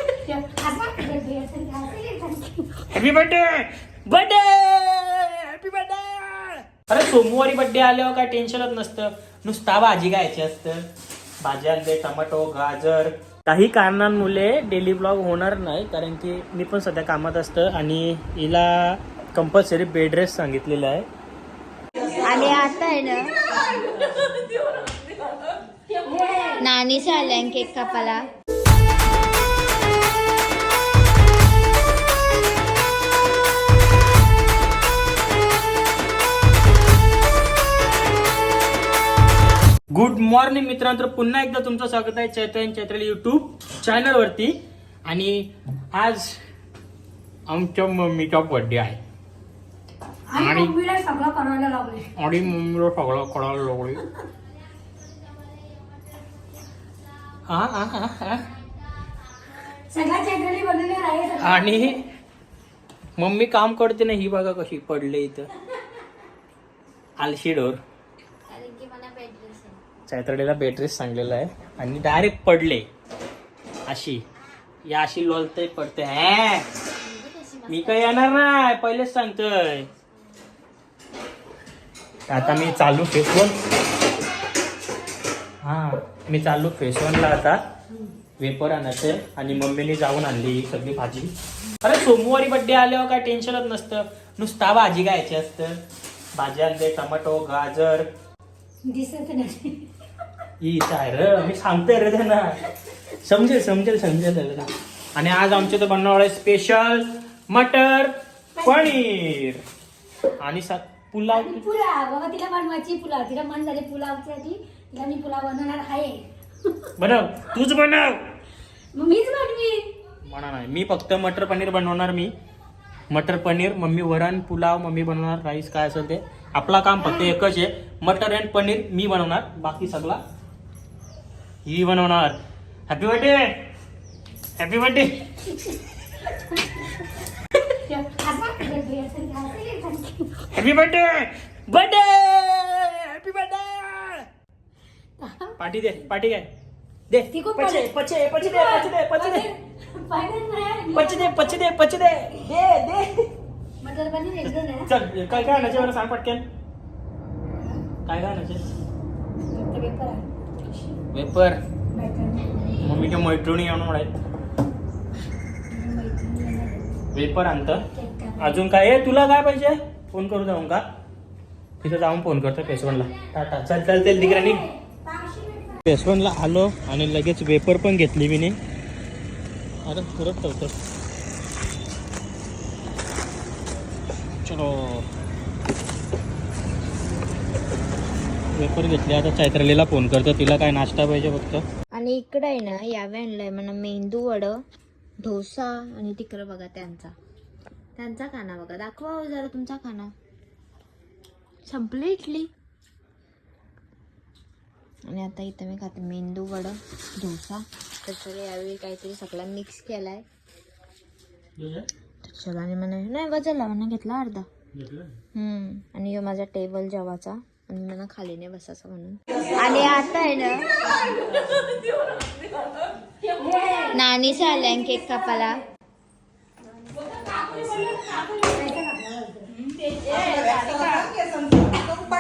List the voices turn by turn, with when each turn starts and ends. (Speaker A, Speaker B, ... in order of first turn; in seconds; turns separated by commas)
Speaker A: 0.2-2.9, Speaker B: 2.9-10.8, Speaker B: 11.4-21.1, Speaker C: 22.2-23.3, Speaker A: 23.7-24.0, Speaker A: 25.9-28.1, Speaker C: 26.6-28.3, Speaker B: 39.9-46.4, Speaker B: 47.5-49.0, Speaker A: 50.3-52.1, Speaker B: 50.4-50.8, Speaker B: 52.2-54.0, Speaker B: 57.5-58.5, Speaker A: 59.8-61.9, Speaker B: 61.4-62.0, Speaker B: 63.2-65.5, Speaker B: 67.2-67.8, Speaker C: 68.5-69.8, Speaker B: 70.1-72.9, Speaker B: 73.9-74.2, Speaker B: 74.8-76.7, Speaker C: 77.0-78.6, Speaker B: 77.7-79.9, Speaker B: 82.3-83.6, Speaker B: 85.6-87.6, Speaker B: 88.4-95.8, Speaker B: 96.3-98.1, Speaker A: 98.8-99.9, Speaker B: 100.6-102.6, Speaker B: 103.2-109.6, Speaker A: 108.6-108.9, Speaker B: 110.4-111.6, Speaker A: 111.3-116.2, Speaker B: 117.0-118.2, Speaker A: 119.0-119.9, Speaker B: 120.3-122.3, Speaker B: 123.1-130.2, Speaker B: 131.7-133.6, Speaker B: 134.6-135.2, Speaker A: 136.5-136.9, Speaker A: 137.8-140.5, Speaker B: 140.5-144.3, Speaker A: 145.2-145.6, Speaker B: 145.6-146.5, Speaker B: 147.1-149.5, Speaker A: 147.3-151.7, Speaker B: 150.9-153.2, Speaker A: 153.8-155.9, Speaker B: 154.9-156.4, Speaker A: 157.6-157.8, Speaker B: 158.1-158.7, Speaker A: 159.5-160.9, Speaker B: 161.1-161.6, Speaker A: 161.9-163.0, Speaker B: 162.8-164.1, Speaker A: 165.7-167.0, Speaker B: 167.1-167.8, Speaker A: 167.9-168.6, Speaker B: 168.4-170.8, Speaker B: 171.8-174.7, Speaker A: 174.0-175.8, Speaker B: 175.9-178.6, Speaker B: 179.8-180.8, Speaker B: 184.4-185.1, Speaker B: 188.5-191.6, Speaker C: 191.9-194.6, Speaker C: 195.2-197.1, Speaker C: 198.0-200.1, Speaker C: 201.7-202.5, Speaker C: 205.1-210.2, Speaker B: 211.6-211.9, Speaker C: 212.3-214.5, Speaker B: 214.7-215.2, Speaker C: 215.3-220.7, Speaker A: 223.2-225.6, Speaker C: 223.9-225.6, Speaker A: 226.9-230.4, Speaker C: 230.3-230.9